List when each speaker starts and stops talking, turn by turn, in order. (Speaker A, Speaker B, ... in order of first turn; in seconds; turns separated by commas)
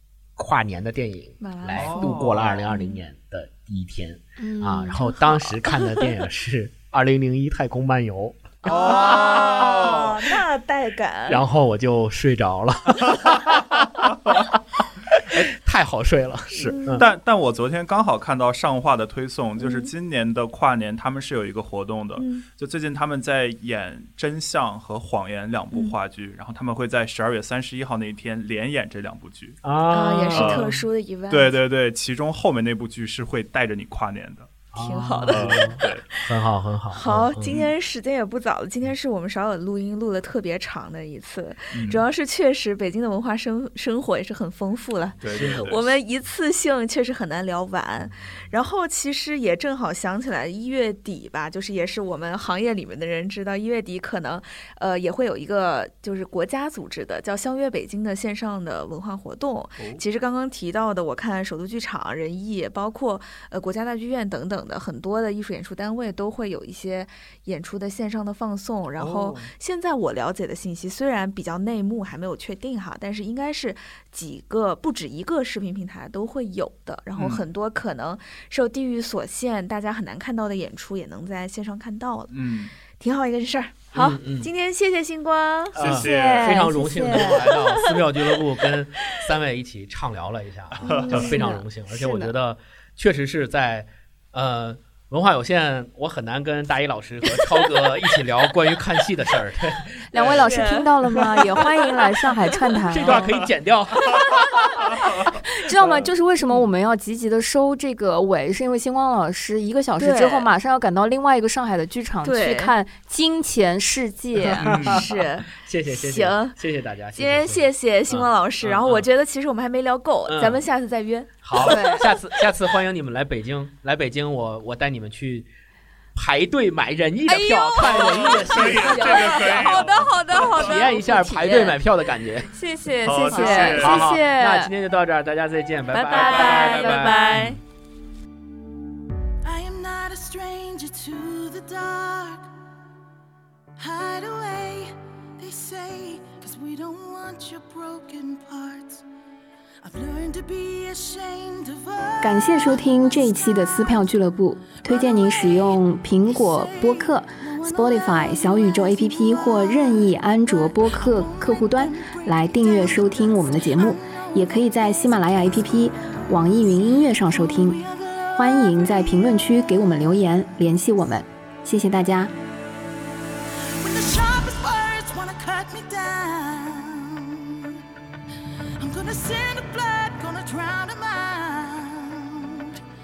Speaker A: 0.4-10.1, Speaker B: 1.4-3.0, Speaker C: 1.7-2.6, Speaker D: 4.4-5.5, Speaker B: 5.7-6.1, Speaker B: 8.6-11.4, Speaker C: 8.7-10.3, Speaker A: 11.3-14.6, Speaker A: 15.1-17.1, Speaker C: 16.5-29.6, Speaker B: 16.6-17.1, Speaker B: 19.6-19.9, Speaker B: 22.2-22.4, Speaker A: 29.6-30.8, Speaker B: 29.9-31.6, Speaker C: 30.3-30.7, Speaker C: 31.3-34.5, Speaker A: 34.7-37.6, Speaker B: 34.7-36.3, Speaker C: 35.3-36.0, Speaker B: 36.9-88.7, Speaker C: 37.4-37.7, Speaker C: 41.7-42.0, Speaker C: 45.2-45.9, Speaker A: 45.3-45.8, Speaker A: 48.0-48.5, Speaker C: 69.0-69.5, Speaker C: 77.2-77.4, Speaker C: 82.3-82.7, Speaker A: 83.9-84.5, Speaker C: 85.7-86.6, Speaker A: 85.7-100.4, Speaker D: 86.1-87.3, Speaker B: 90.8-91.5, Speaker C: 90.8-91.2, Speaker D: 91.1-92.3, Speaker D: 100.1-103.3, Speaker B: 100.2-100.9, Speaker A: 102.9-104.6, Speaker C: 104.9-105.3, Speaker D: 105.3-114.6, Speaker B: 110.0-110.5, Speaker B: 112.2-112.7, Speaker A: 114.4-117.7, Speaker B: 114.6-116.6, Speaker C: 114.6-115.0, Speaker B: 117.1-122.5, Speaker C: 118.1-119.1, Speaker A: 120.3-120.7, Speaker A: 121.4-125.5, Speaker D: 121.6-122.1, Speaker A: 126.2-129.7, Speaker D: 127.3-130.2, Speaker B: 127.8-131.8, Speaker C: 127.9-130.8, Speaker A: 130.5-132.6, Speaker D: 132.6-134.7, Speaker C: 133.0-134.1, Speaker A: 133.3-137.4, Speaker D: 135.9-137.6, Speaker B: 136.1-137.6, Speaker C: 136.3-136.7, Speaker E: 139.4-142.4, Speaker E: 143.8-149.0, Speaker E: 149.8-154.2, Speaker D: 152.2-167.8, Speaker E: 154.7-169.5, Speaker D: 168.4-172.3, Speaker E: 173.8-177.8, Speaker E: 178.8-182.8